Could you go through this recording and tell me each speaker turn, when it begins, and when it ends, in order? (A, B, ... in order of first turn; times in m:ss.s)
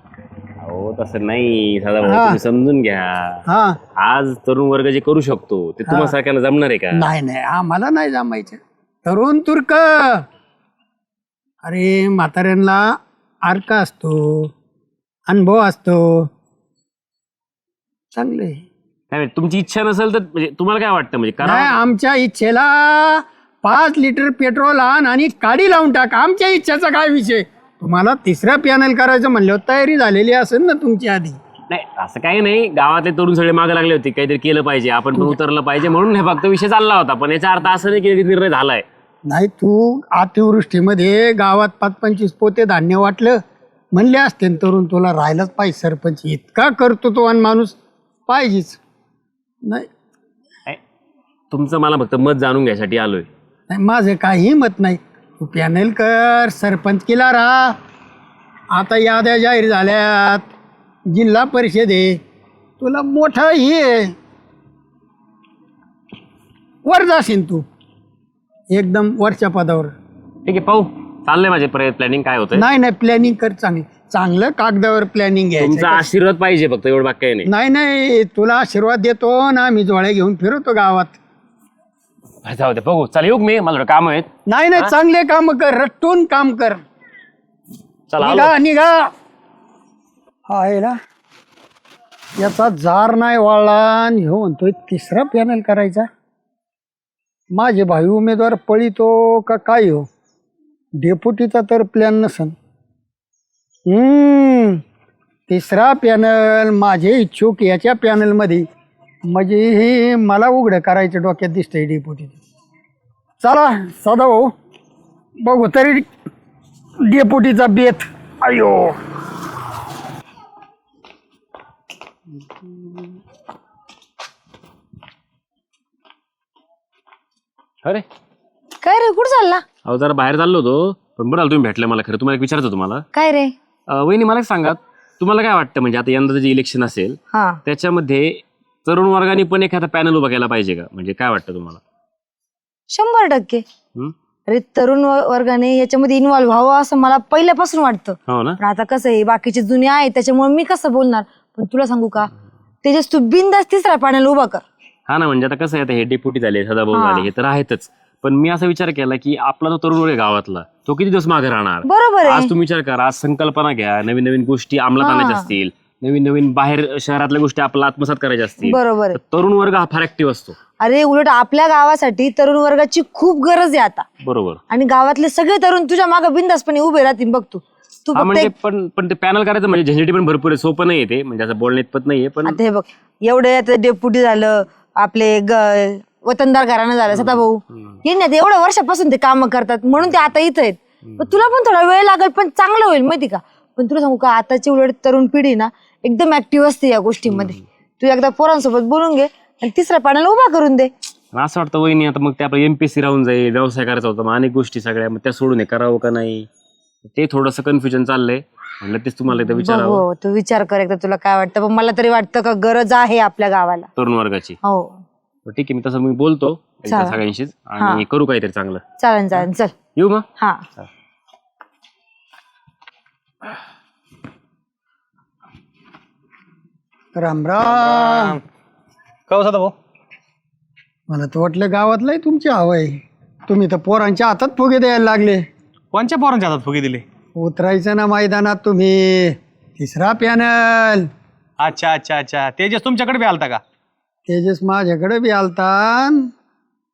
0:00.6-0:03.4 A
0:02.0-0:02.4 B
0:03.5-0:03.8 B
0:04.0-0:07.1 A
0:05.9-0:06.1 B
0:06.9-0:10.2 B
0:11.6-0:14.5 B
0:15.3-0:16.3 B
0:18.1-0:18.6 B
0:19.1-0:21.8 A
0:21.4-0:31.4 B
0:31.7-0:38.8 A
0:39.3-0:43.4 B
0:43.9-0:47.8 B
0:48.3-0:48.8 B
0:51.5-0:53.3 A
0:53.7-0:57.8 B
0:58.7-1:00.5 B
1:01.1-1:02.2 B
1:02.8-1:04.2 B
1:06.8-1:07.7 B
1:08.7-1:09.9 B
1:10.5-1:12.7 A
1:12.6-1:16.1 B
1:15.6-1:17.5 A
1:17.5-1:21.2 B
1:22.4-1:24.3 A
1:24.5-1:26.8 B
1:28.1-1:28.6 A
1:28.2-1:29.1 B
1:30.5-1:31.0 B
1:32.4-1:36.1 B
1:37.5-1:40.1 B
1:41.0-1:42.6 B
1:43.9-1:44.8 B
1:45.5-1:48.7 B
1:49.2-1:52.4 B
1:53.4-1:54.5 B
1:55.4-1:56.1 B
1:57.0-1:59.0 B
2:08.8-2:09.6 C
2:09.8-2:13.0 A
2:13.1-2:13.5 C
2:13.9-2:21.8 A
2:17.3-2:17.6 C
2:22.9-2:23.6 C
2:24.5-2:32.3 C
2:28.3-2:28.6 A
2:32.8-2:34.6 C
2:35.1-2:50.6 A
2:36.9-2:37.3 C
2:41.8-2:42.5 C
2:45.0-2:45.5 C
2:48.6-2:49.2 C
2:50.8-2:54.1 C
2:54.2-2:54.6 A
2:54.7-2:58.5 C
2:58.2-3:02.6 A
3:02.4-3:20.9 C
3:07.1-3:07.4 A
3:21.3-3:26.5 A
3:27.1-3:30.0 A
3:29.3-3:33.9 C
3:34.0-3:34.6 A
3:34.6-3:35.0 C
3:35.5-3:38.8 A
3:36.9-3:37.2 C
3:37.8-3:38.0 C
3:39.0-3:39.8 C
3:40.0-3:40.3 A
3:40.4-3:40.7 C
3:47.2-3:48.4 B
3:47.6-3:48.4 D
3:49.3-3:49.7 D
3:51.1-3:55.5 B
3:55.9-3:57.0 D
3:57.4-4:01.1 B
4:01.6-4:03.6 D
4:04.3-4:06.3 B